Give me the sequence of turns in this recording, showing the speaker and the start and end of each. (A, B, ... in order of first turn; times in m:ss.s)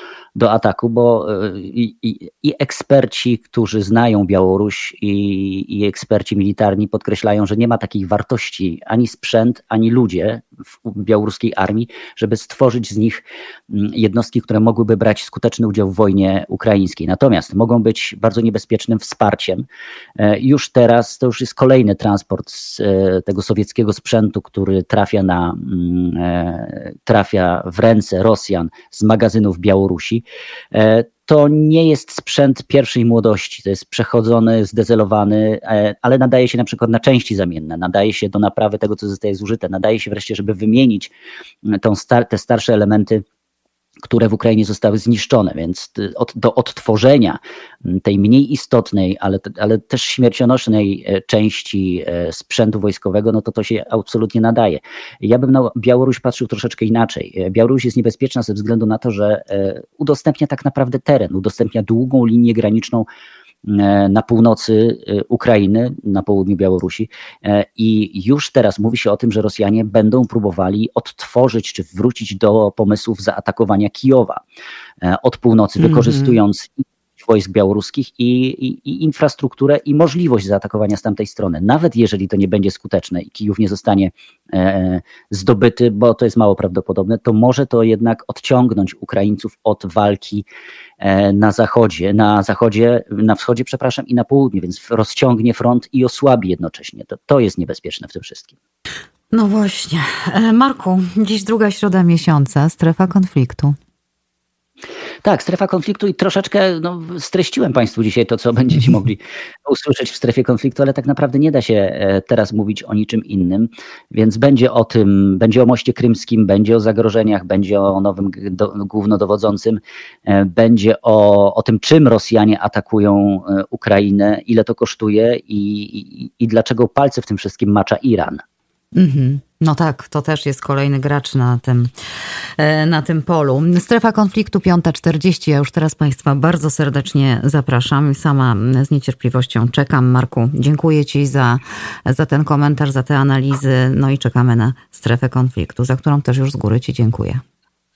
0:00.3-0:19.6 A
0:20.2-0:41.1 A
0:41.7-0:43.2 A
0:44.0-1:03.0 A
1:03.6-1:14.4 A
1:15.0-1:30.4 A
1:15.8-1:16.3 B
1:31.0-1:38.5 A
1:39.3-1:43.8 B
1:45.2-2:08.4 A
2:08.9-2:11.9 B
2:12.6-2:27.4 B